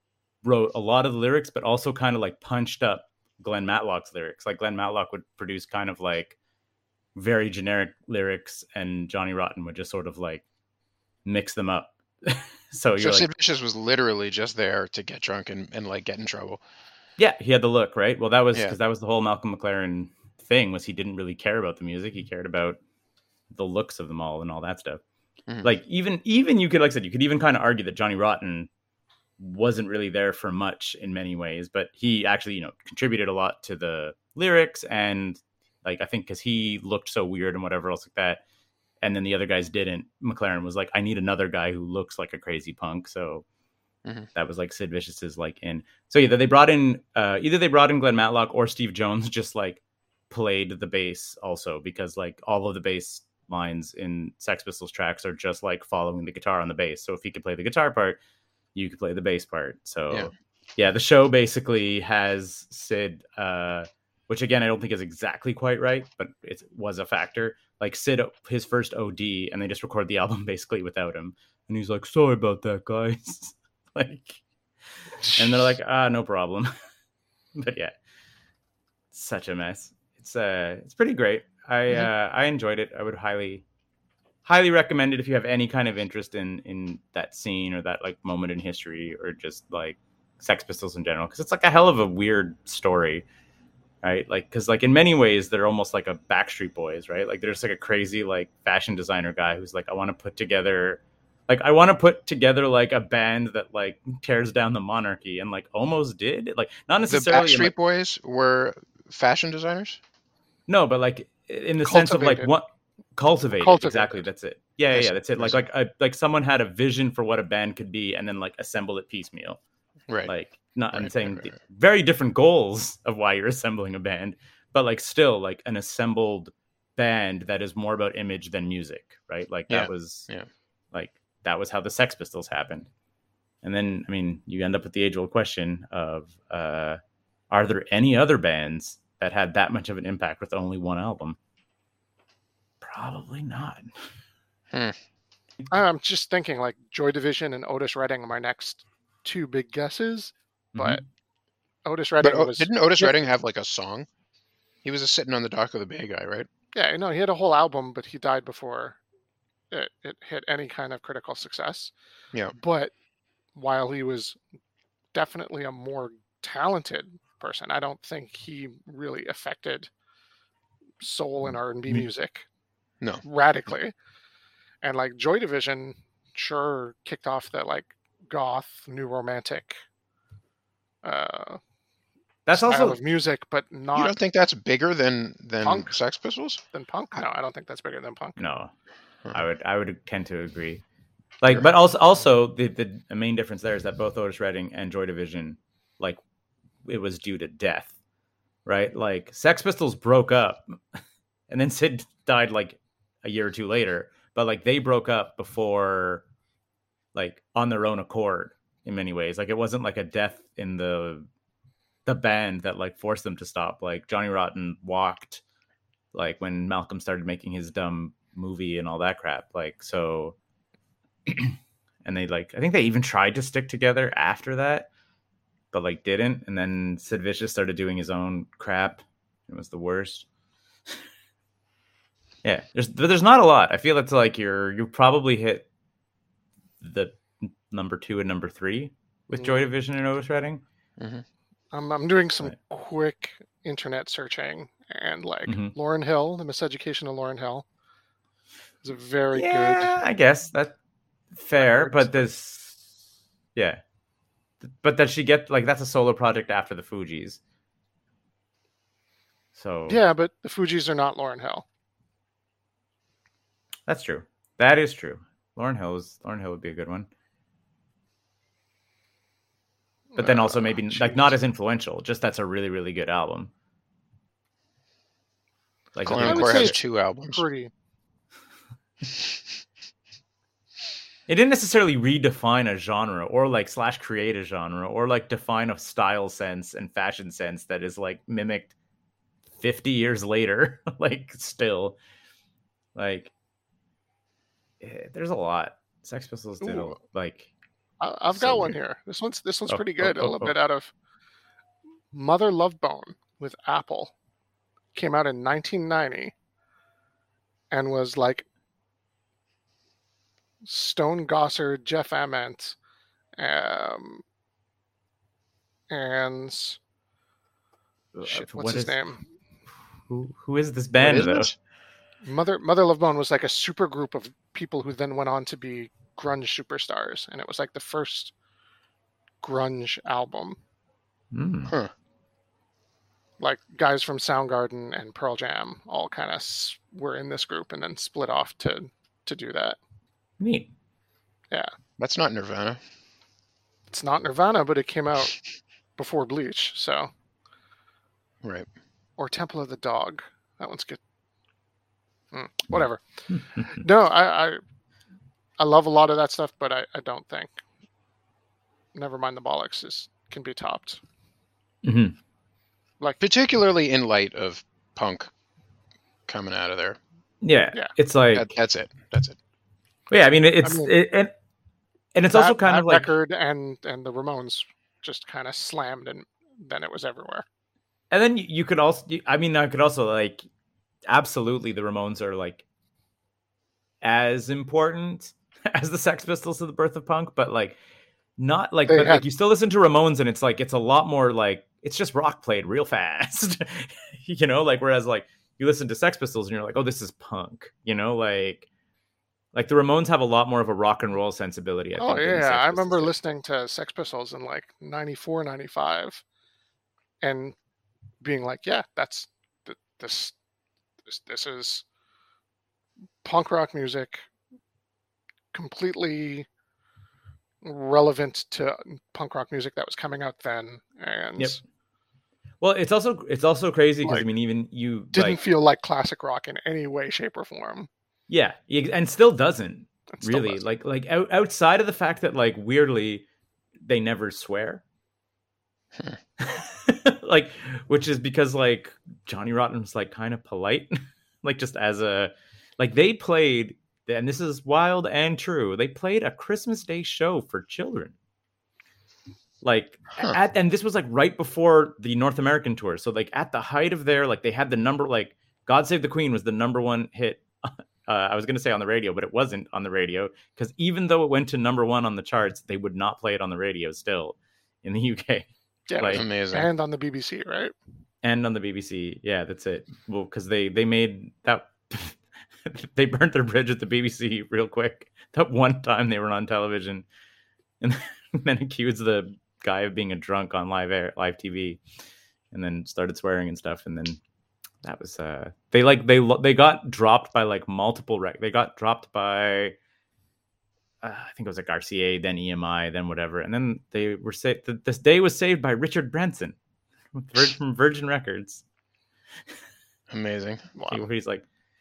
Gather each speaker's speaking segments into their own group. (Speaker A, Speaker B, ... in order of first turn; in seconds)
Speaker A: 0.4-6.4, 7.2-10.4, 11.2-13.3, 17.2-22.8, 23.5-25.0, 25.6-28.7, 29.4-38.4, 39.0-43.5, 44.4-58.2, 58.8-74.4, 75.3-76.7, 77.6-77.9, 79.1-83.6, 84.5-93.2, 94.0-107.7, 110.7-112.7, 113.2-119.6, 120.3-130.3, 130.9-132.9, 133.6-137.0, 137.5-141.4, 142.8-143.9, 150.8-151.0, 182.5-183.0, 188.4-188.7, 189.3-190.8, 191.4-196.2, 196.8-197.9, 198.7-206.2, 207.1-211.3, 212.1-215.4, 216.1-220.3, 221.3-224.9, 225.7-230.2, 232.4-235.7, 236.8-240.6, 245.5-245.7, 249.3-250.7, 251.3-252.9, 253.6-253.8, 254.6-257.4, 259.6-260.0, 263.9-267.1, 270.2-273.5, 275.9-276.8, 281.3-288.7, 289.6-292.0, 292.9-293.3, 294.8-297.5, 298.3-298.8, 299.7-300.6, 318.1-319.0, 320.1-321.5, 331.3-331.7, 340.4-340.7, 353.3-353.7, 361.8-362.1, 367.4-368.5, 370.1-371.3, 372.1-373.1, 378.1-380.4, 381.1-382.6, 384.0-387.8, 388.4-398.7, 399.5-403.1, 422.6-425.4, 428.3-433.3, 433.8-434.8, 436.4-448.1, 449.6-466.2, 468.2-477.1, 477.8-481.8, 482.5-484.2, 484.8-489.8, 491.0-496.6, 497.1-498.6, 500.9-501.4
Speaker B: 13.0-16.6, 107.1-110.0, 114.9-115.6, 120.9-121.5, 129.7-130.5, 152.2-154.1, 154.8-156.5, 183.9-186.6, 241.0-241.2, 276.1-277.4, 321.0-321.5, 342.0-342.8, 348.4-348.7, 363.2-365.3, 366.3-367.0, 368.3-369.4, 466.1-466.7, 500.1-500.7
Speaker C: 111.8-112.5, 113.6-114.2, 145.7-151.0, 151.9-153.2, 156.7-159.0, 159.7-161.9, 162.6-162.9, 163.6-164.4, 165.1-169.9, 171.0-172.5, 173.2-173.9, 174.8-179.8, 181.0-181.6, 182.6-184.2, 185.6-185.9, 186.7-188.4, 239.3-239.6, 241.7-247.7, 248.8-250.0, 251.6-252.2, 259.9-261.6, 270.1-271.4, 276.1-276.8, 277.3-277.7, 296.6-296.9, 298.0-300.9, 302.1-304.1, 304.9-306.3, 307.7-308.5, 310.6-312.8, 313.4-314.2, 315.9-316.8, 318.3-319.2, 322.2-328.3, 329.4-330.6, 333.4-339.8, 343.9-345.4, 346.0-347.1, 349.2-351.0, 352.3-353.0, 353.6-354.6, 355.6-357.6, 358.9-361.0, 370.6-370.9, 372.3-377.4, 388.9-389.2, 402.0-406.2, 407.2-407.6, 408.2-410.4, 411.1-411.9, 413.2-414.3, 415.5-416.5, 417.6-421.6, 425.1-427.9, 430.2-430.6, 465.9-467.8, 500.8-501.0